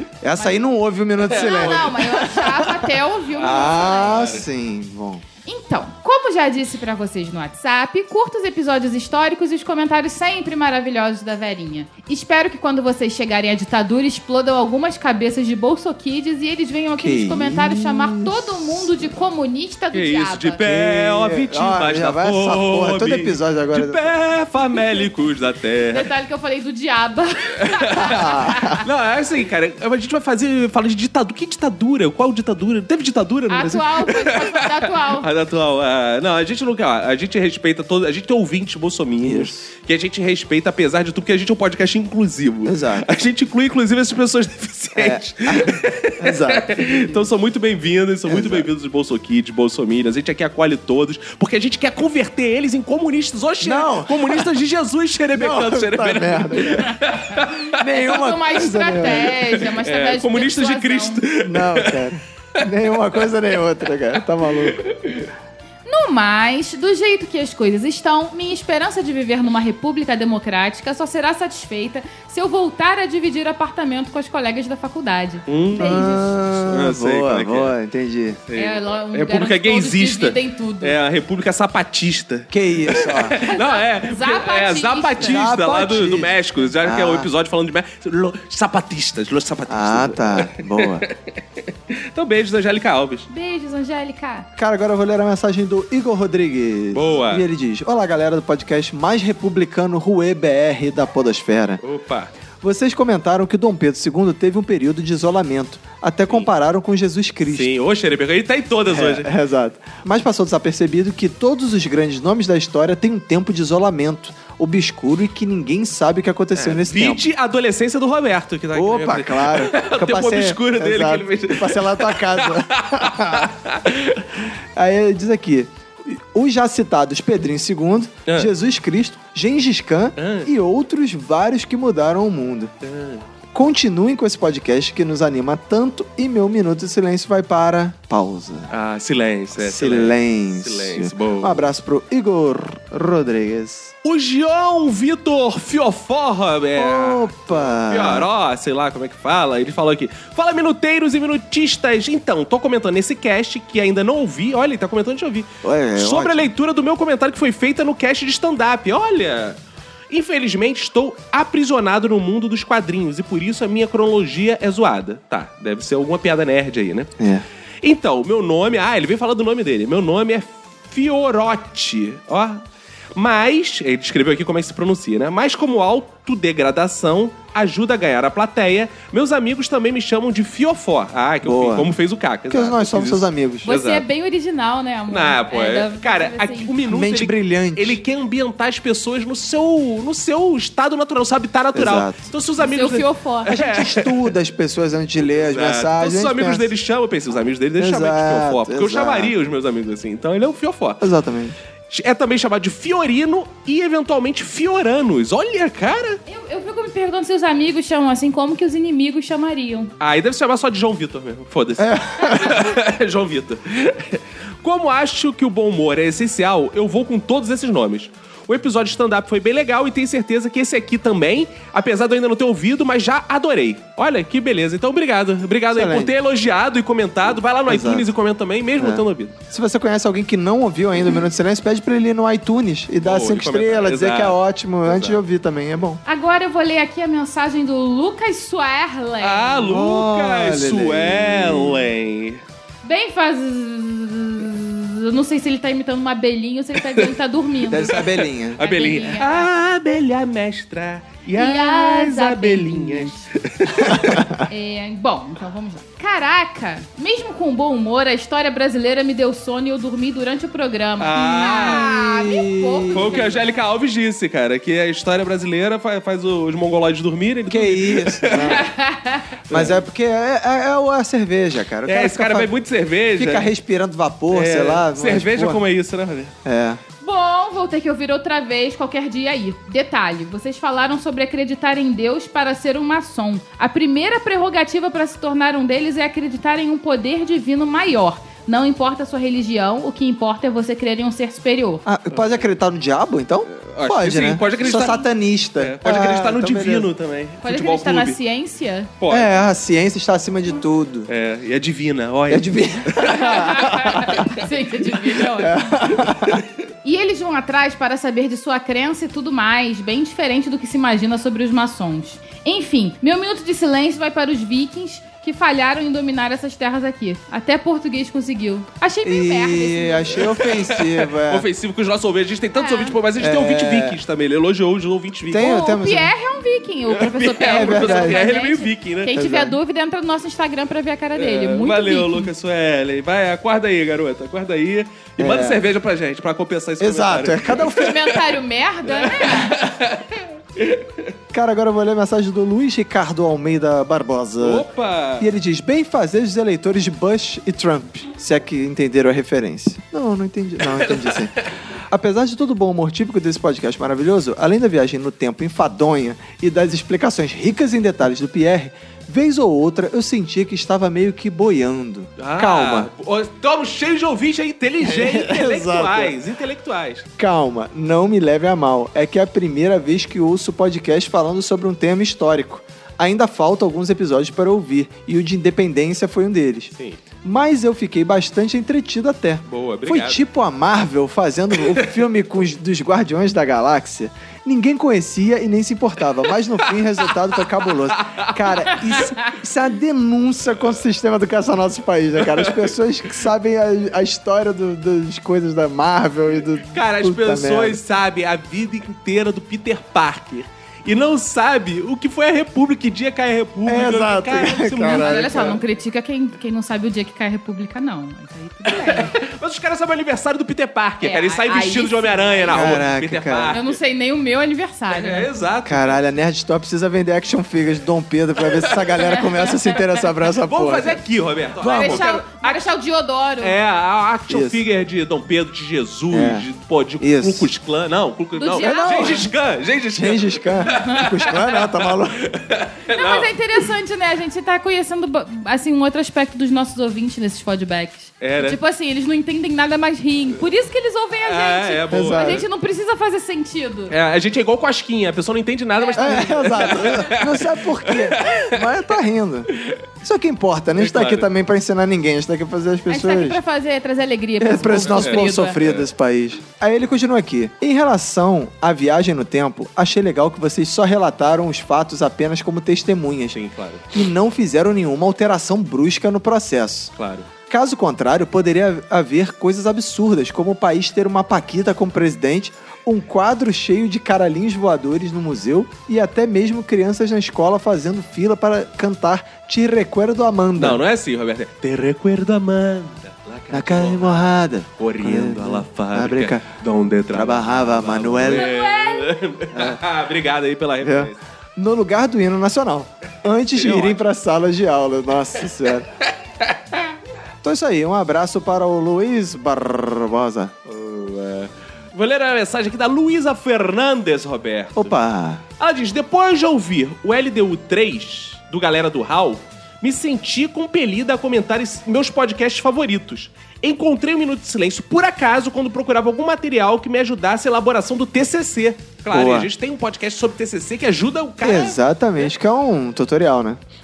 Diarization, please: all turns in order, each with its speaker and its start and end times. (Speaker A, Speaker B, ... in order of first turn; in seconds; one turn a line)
Speaker A: 0.2-2.8
Speaker B: 1.2-4.3
Speaker C: 1.3-1.9
Speaker C: 3.3-4.5
Speaker A: 3.4-5.2
Speaker B: 5.5-20.6
Speaker A: 16.9-19.1
Speaker C: 19.9-26.1
Speaker A: 20.6-24.1
Speaker B: 24.8-25.1
Speaker B: 25.9-28.9
Speaker C: 27.7-57.7
Speaker A: 28.1-28.7
Speaker B: 33.5-35.3
Speaker A: 39.2-39.7
Speaker A: 42.6-43.1
Speaker A: 45.0-47.1
Speaker A: 48.3-48.7
Speaker A: 53.6-54.5
Speaker A: 55.3-57.0
Speaker A: 57.8-59.4
Speaker B: 58.1-61.2
Speaker C: 59.0-62.1
Speaker A: 61.4-64.9
Speaker C: 64.8-65.3
Speaker B: 65.8-76.4
Speaker C: 75.5-77.7
Speaker A: 75.7-78.4
Speaker C: 78.5-91.4
Speaker B: 78.5-81.0
Speaker A: 82.5-83.4
Speaker B: 83.4-85.5
Speaker A: 85.2-87.3
Speaker A: 89.7-91.1
Speaker C: 92.0-93.3
Speaker B: 93.3-94.5
Speaker A: 94.6-101.8
Speaker C: 96.9-97.5
Speaker C: 101.8-102.3
Speaker A: 102.6-107.7
Speaker C: 107.5-109.3
Speaker A: 108.9-117.2
Speaker C: 116.6-124.2
Speaker A: 118.7-123.5
Speaker A: 124.8-132.7
Speaker C: 130.2-130.5
Speaker C: 132.8-133.2
Speaker A: 133.5-138.7
Speaker C: 138.7-141.7
Speaker A: 139.6-143.9
Speaker C: 144.0-159.6
Speaker A: 146.8-148.3
Speaker A: 155.6-156.5
Speaker C: 160.1-167.1
Speaker A: 167.2-167.4
Speaker C: 167.8-172.6
Speaker C: 173.2-184.1
Speaker A: 181.4-181.9
Speaker A: 182.5-183.7
Speaker B: 183.7-186.8
Speaker C: 185.1-194.3
Speaker A: 186.9-188.0
Speaker A: 191.7-192.3
Speaker B: 192.6-193.6
Speaker A: 193.5-196.6
Speaker C: 195.4-201.0
Speaker A: 197.8-199.3
Speaker A: 201.0-201.6
Speaker C: 201.9-206.2
Speaker B: 206.3-209.9
Speaker C: 210.0-229.4
Speaker A: 211.8-212.7
Speaker A: 225.7-226.1
Speaker A: 227.7-228.1
Speaker A: 228.8-236.0
Speaker C: 233.0-235.2
Speaker B: 236.1-239.7
Speaker C: 239.2-242.4
Speaker A: 239.7-241.9
Speaker B: 242.8-249.5
Speaker C: 246.8-247.1
Speaker A: 247.7-248.6
Speaker C: 247.9-254.2
Speaker B: 251.3-253.3
Speaker A: 254.0-254.3
Speaker B: 254.5-263.5
Speaker C: 261.0-261.9
Speaker A: 261.6-263.1
Speaker C: 262.9-268.7
Speaker A: 267.5-268.6
Speaker B: 268.4-269.2
Speaker C: 269.5-269.8
Speaker A: 269.5-272.5
Speaker C: 271.9-273.5
Speaker A: 273.1-275.6
Speaker C: 274.3-276.3
Speaker A: 276.4-276.8
Speaker B: 277.0-291.8
Speaker A: 291.9-296.9
Speaker C: 292.1-292.4
Speaker C: 293.7-295.1
Speaker C: 295.6-298.2
Speaker B: 297.4-298.9
Speaker C: 299.0-299.4
Speaker A: 299.1-301.1
Speaker C: 301.1-303.6
Speaker A: 302.3-304.1
Speaker B: 303.1-305.7
Speaker A: 305.4-306.4
Speaker C: 306.0-306.4
Speaker B: 306.8-320.2
Speaker A: 319.0-321.5
Speaker C: 320.2-325.6
Speaker B: 322.5-323.0
Speaker A: 323.2-324.0
Speaker A: 325.3-326.1
Speaker B: 325.4-332.3
Speaker C: 326.9-329.2
Speaker A: 327.4-328.2
Speaker A: 329.1-329.6
Speaker C: 331.1-338.3
Speaker A: 335.2-335.6
Speaker A: 336.8-337.9
Speaker B: 337.6-339.6
Speaker C: 338.9-340.1
Speaker C: 340.6-341.1
Speaker A: 341.3-344.6
Speaker C: 344.4-345.3
Speaker A: 345.2-351.3
Speaker C: 350.6-351.3
Speaker A: 351.9-362.9
Speaker C: 362.2-367.1
Speaker A: 364.8-366.1
Speaker A: 367.2-376.7
Speaker A: 377.2-397.8
Speaker C: 379.5-380.2
Speaker C: 387.9-388.3
Speaker C: 392.3-392.7
Speaker C: 396.7-405.6
Speaker A: 403.7-405.6
Speaker B: 404.8-409.1
Speaker C: 408.6-413.8
Speaker B: 411.0-412.8
Speaker A: 412.5-413.6
Speaker B: 413.5-415.3
Speaker C: 414.9-416.0
Speaker A: 415.7-421.0
Speaker C: 418.6-418.9
Speaker B: 419.0-420.1
Speaker C: 420.5-422.8
Speaker A: 421.6-422.1
Speaker B: 421.6-423.6
Speaker C: 423.4-433.7
Speaker A: 424.3-424.6
Speaker A: 426.1-426.5
Speaker A: 427.0-427.5
Speaker B: 428.4-429.3
Speaker A: 428.6-429.2
Speaker A: 429.9-432.2
Speaker B: 430.6-431.3
Speaker B: 432.9-443.9
Speaker C: 438.2-438.6
Speaker C: 441.2-442.5
Speaker A: 441.9-442.4
Speaker C: 443.9-448.6
Speaker B: 445.8-447.1
Speaker A: 446.0-453.4
Speaker C: 450.8-451.3
Speaker B: 452.9-455.6
Speaker A: 454.4-463.4
Speaker C: 454.7-455.8
Speaker C: 463.3-463.8
Speaker A: 463.9-466.9
Speaker C: 467.0-467.3
Speaker A: 467.5-480.8
Speaker C: 480.6-491.2
Speaker A: 483.5-486.4
Speaker A: 487.1-488.5
Speaker B: 488.2-489.2
Speaker A: 490.8-495.9
Speaker C: 493.6-494.0
Speaker A: 497.4-500.5
Speaker C: 500.7-504.9
Speaker A: 504.8-505.4
Speaker C: 505.6-522.2
Speaker A: 519.1-519.5
Speaker A: 521.4-523.6